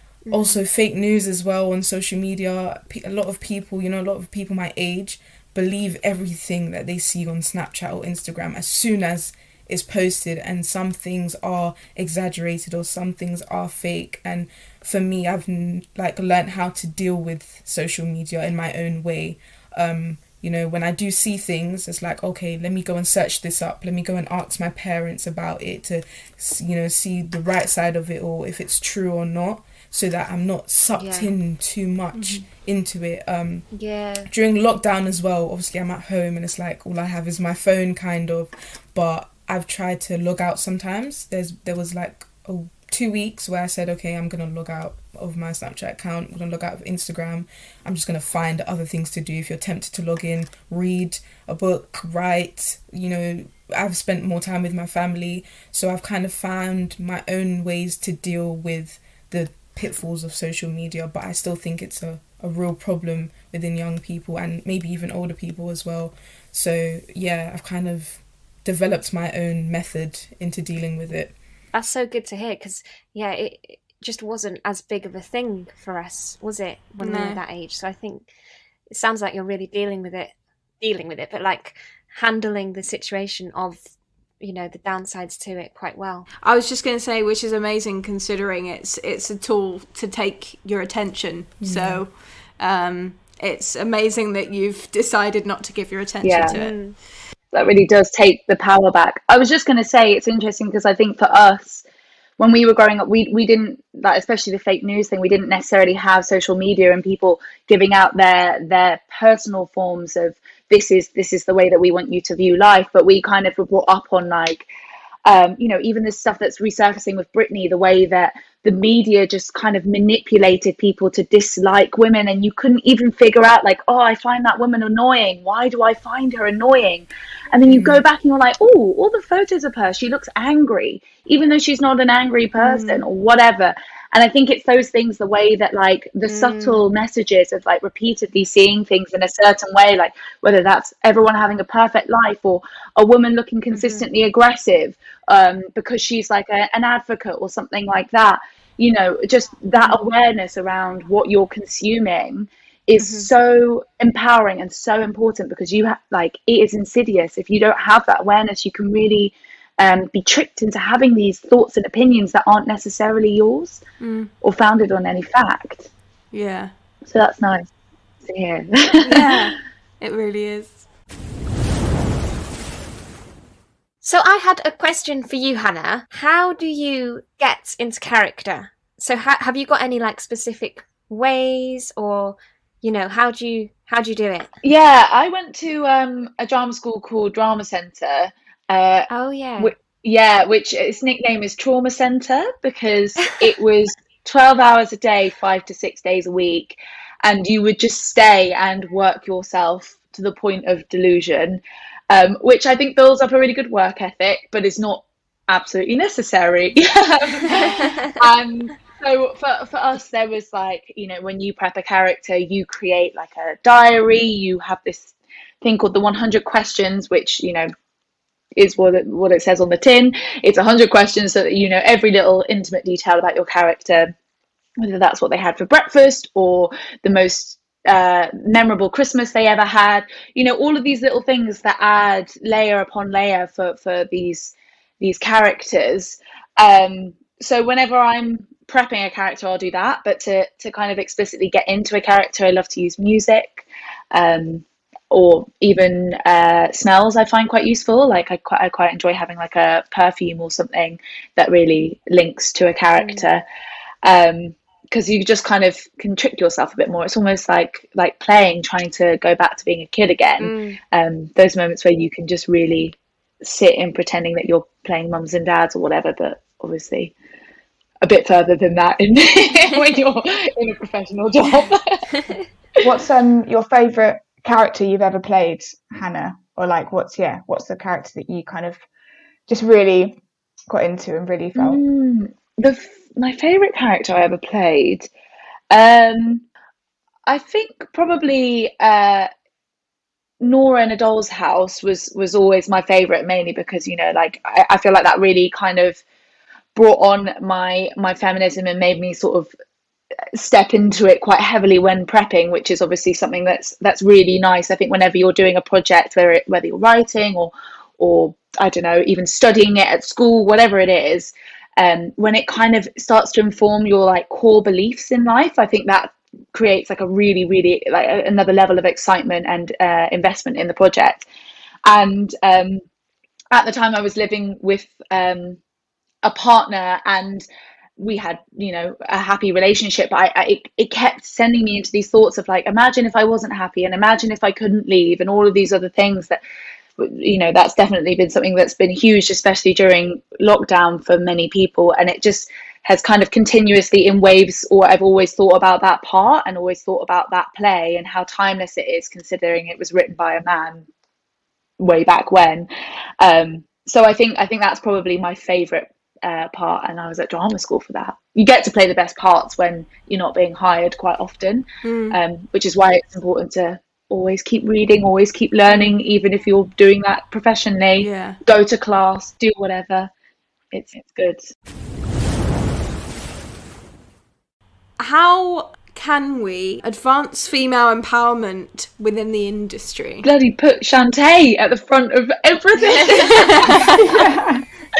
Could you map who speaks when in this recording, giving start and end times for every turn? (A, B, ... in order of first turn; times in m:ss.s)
0:00.3-0:00.6 A
0:00.3-0:33.7 B
0:31.0-0:31.3 A
0:32.1-0:32.5 C
0:33.7-0:34.3 A
0:34.3-1:11.4 B
1:11.7-1:18.3 A
1:17.0-1:17.4 C
1:18.9-1:23.8 A
1:24.4-1:26.3 A
1:26.4-1:36.8 C
1:31.6-1:32.0 B
1:36.2-1:36.6 D
1:36.5-1:37.0 A
1:37.5-1:41.8 D
1:42.4-1:54.7 D
1:55.3-2:43.8 D
2:07.7-2:08.0 C
2:12.6-2:13.1 A
2:16.2-2:16.8 A
2:23.7-2:24.1 A
2:29.8-2:30.0 A
2:33.0-2:33.3 A
2:44.0-2:44.3 C
2:44.4-2:45.9 D
2:46.3-2:46.7 C
2:47.1-2:47.7 D
2:48.3-2:49.5 D
2:49.0-2:50.8 C
2:54.0-3:04.5 A
3:04.6-3:37.7 D
3:09.1-3:09.7 A
3:27.5-3:28.1 A
3:38.6-3:44.1 D
3:44.8-4:13.4 D
4:13.0-4:13.3 A
4:14.0-4:27.1 D
4:20.4-4:20.8 A
4:28.0-4:32.2 D
4:32.8-4:38.8 E
4:39.5-4:41.8 E
4:41.6-4:45.1 D
4:45.7-4:46.4 D
4:47.3-4:49.3 D
4:50.4-4:56.0 D
4:56.8-4:59.5 D
5:00.3-5:21.2 D
5:21.9-5:22.8 D
5:23.5-5:25.6 D
5:26.2-5:27.5 D
5:28.0-5:36.4 D
5:37.0-5:50.9 D
5:51.8-6:10.1 D
6:01.8-6:02.2 C
6:08.0-6:08.4 C
6:10.7-6:11.4 D
6:15.0-6:20.3 C
6:20.2-6:24.1 D
6:23.1-6:24.0 C
6:24.0-6:24.7 E